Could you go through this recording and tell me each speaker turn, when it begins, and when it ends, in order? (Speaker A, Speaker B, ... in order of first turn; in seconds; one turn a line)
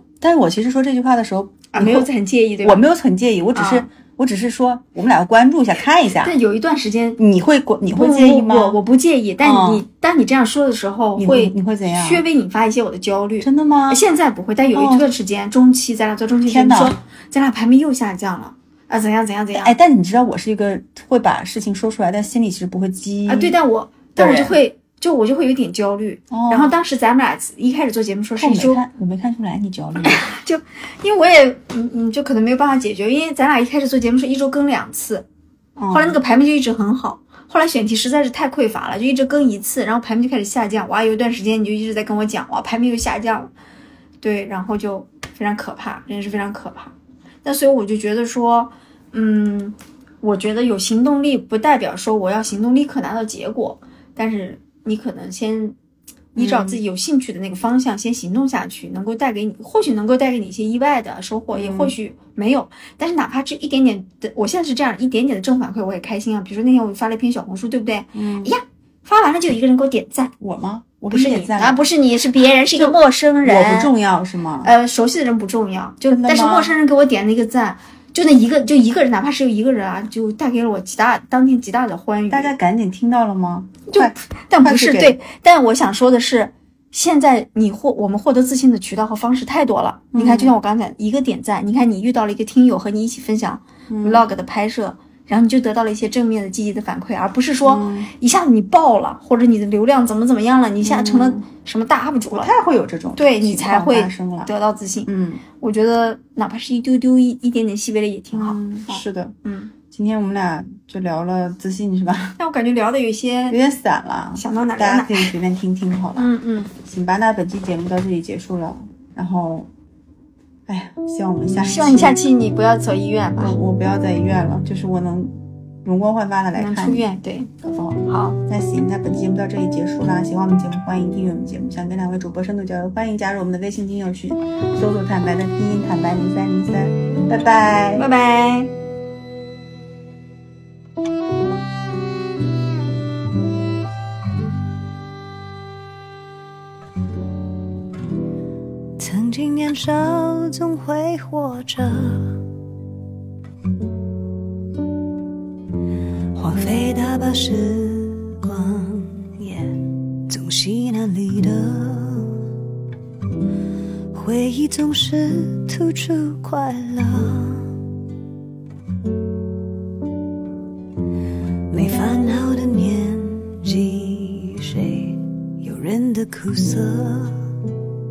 Speaker A: 0.2-2.1
Speaker B: 1.7-2.9
Speaker A: 2.6-6.3
Speaker B: 3.5-3.9
Speaker B: 6.2-7.2
Speaker A: 7.2-8.8
Speaker B: 7.9-19.8
Speaker A: 9.4-9.8
Speaker A: 11.2-12.2
Speaker A: 13.4-14.0
Speaker A: 14.7-15.1
Speaker A: 16.4-17.0
Speaker A: 19.5-23.6
Speaker B: 23.3-28.8
Speaker A: 24.1-24.6
Speaker A: 26.3-26.8
Speaker A: 28.4-30.3
Speaker B: 30.0-35.2
Speaker A: 35.8-36.2
Speaker B: 35.9-43.5
Speaker B: 44.2-55.8
Speaker B: 56.3-70.3
Speaker A: 56.4-56.8
Speaker A: 61.5-61.9
Speaker A: 68.1-68.5
Speaker A: 70.4-71.8
Speaker B: 71.1-73.9
Speaker A: 72.7-74.7
Speaker B: 74.6-82.5
Speaker A: 76.1-76.7
Speaker A: 82.3-85.2
Speaker B: 83.9-102.5
Speaker A: 90.1-90.6
Speaker A: 93.9-94.2
Speaker A: 97.6-98.1
Speaker A: 100.8-101.4
Speaker A: 102.3-104.5
Speaker B: 103.2-109.7
Speaker A: 105.0-105.4
Speaker A: 108.3-109.4
Speaker A: 109.9-112.4
Speaker B: 112.4-113.6
Speaker A: 113.5-116.3
Speaker B: 114.3-115.3
Speaker B: 116.1-116.7
Speaker A: 116.8-119.7
Speaker A: 120.7-122.2
Speaker B: 121.6-123.5
Speaker A: 123.4-127.0
Speaker B: 126.5-127.5
Speaker A: 127.6-138.1
Speaker B: 128.1-128.4
Speaker B: 137.9-138.7
Speaker C: 149.0-152.4
Speaker C: 156.3-162.4
Speaker C: 164.1-167.7
Speaker C: 171.7-177.4